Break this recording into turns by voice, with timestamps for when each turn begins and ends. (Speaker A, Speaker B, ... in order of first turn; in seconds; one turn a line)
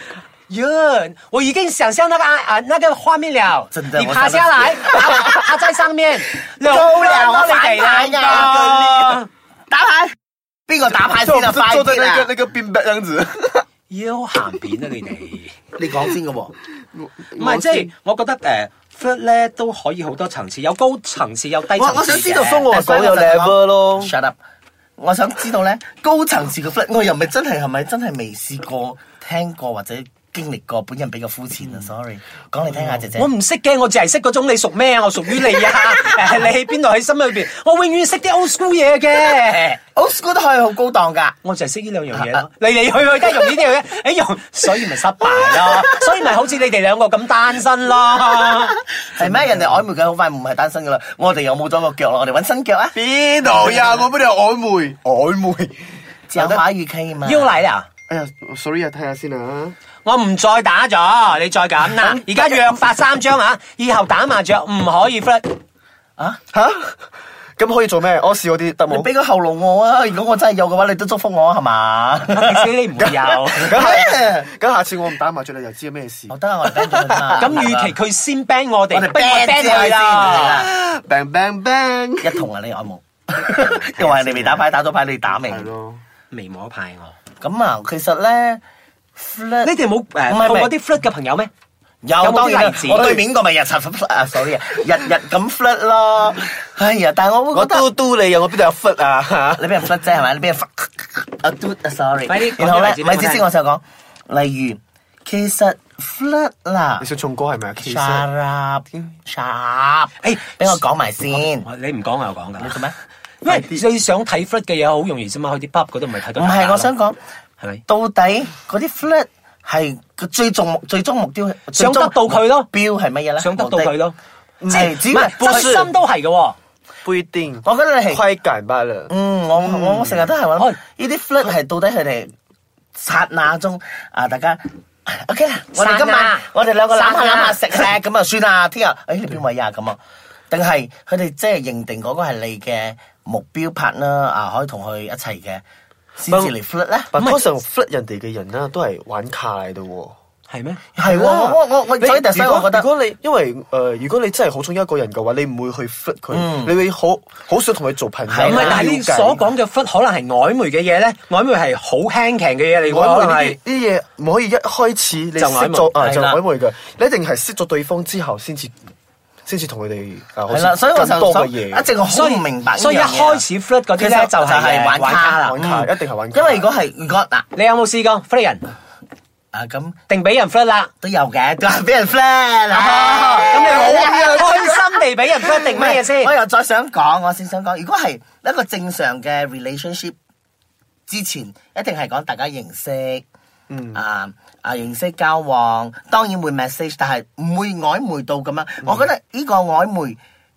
Speaker A: 0.5-9.3
Speaker B: 3.7-5.4
Speaker B: 6.6-10.2
Speaker C: 8.2-8.9
Speaker B: 10.7-12.3
Speaker C: 10.9-13.7
Speaker A: 13.9-15.6
Speaker B: 15.8-16.5
Speaker C: 16.9-17.9
Speaker A: 17.4-22.7
Speaker C: 21.7-24.1
Speaker B: 22.7-24.4
Speaker B: 25.0-33.3
Speaker A: 33.1-39.8
Speaker B: 39.9-41.4
Speaker A: 41.4-48.8
Speaker B: 42.1-42.4
Speaker B: 49.0-54.1
Speaker C: 49.2-49.7
Speaker C: 52.9-56.6
Speaker B: 56.3-57.5
Speaker A: 57.2-57.9
Speaker C: 58.1-59.7
Speaker A: 60.0-65.6
Speaker C: 61.8-62.8
Speaker C: 66.5-67.0
Speaker C: 67.6-69.1
Speaker B: 68.9-72.7
Speaker A: 72.3-73.8
Speaker C: 73.0-77.5
Speaker B: 73.5-74.5
Speaker B: 76.3-78.0
Speaker A: 77.4-80.7
Speaker B: 78.9-80.7
Speaker C: 80.3-82.5
Speaker B: 82.2-85.7
Speaker A: 83.9-84.6
Speaker C: 85.5-86.0
Speaker A: 86.3-87.1
Speaker B: 87.4-88.6
Speaker B: 89.2-89.7
Speaker A: 89.6-91.5
Speaker B: 90.2-90.7
Speaker B: 92.0-97.9
Speaker A: 92.2-93.1
Speaker C: 93.0-93.2
Speaker C: 97.5-99.8
Speaker B: 99.5-107.1
Speaker A: 102.3-103.4
Speaker C: 107.0-108.3
Speaker B: 107.8-111.7
Speaker A: 110.2-112.8
Speaker B: 112.6-113.0
Speaker A: 113.4-116.9
Speaker B: 113.5-113.8
Speaker B: 116.3-117.2
Speaker B: 117.9-124.0
Speaker A: 121.7-122.7
Speaker A: 123.4-124.2
Speaker C: 124.6-125.9
Speaker A: 124.7-126.6
Speaker B: 124.7-125.8
Speaker C: 127.0-130.2
Speaker B: 127.6-128.2
Speaker B: 129.1-132.3
Speaker B: 132.9-140.0
Speaker A: 135.8-137.7
Speaker B: 140.5-145.6
Speaker B: 146.2-147.1
Speaker C: 146.3-146.5
Speaker C: 147.1-150.2
Speaker A: 147.2-147.4
Speaker A: 150.5-150.8
Speaker B: 150.9-152.9
Speaker C: 151.0-159.4
Speaker B: 156.3-156.8
Speaker B: 158.3-158.7
Speaker A: 158.4-163.6
Speaker C: 162.9-168.7
Speaker A: 165.4-166.3
Speaker B: 166.1-166.4
Speaker C: 169.4-171.9
Speaker B: 170.5-173.4
Speaker A: 172.1-175.6
Speaker B: 174.0-177.5
Speaker C: 175.4-176.7
Speaker A: 177.5-178.6
Speaker B: 179.5-180.0
Speaker A: 180.1-180.9
Speaker B: 181.0-184.8
Speaker C: 182.9-184.7
Speaker A: 183.0-186.3
Speaker B: 185.5-190.2
Speaker B: 191.1-193.2
Speaker C: 193.7-194.0
Speaker B: 193.9-200.2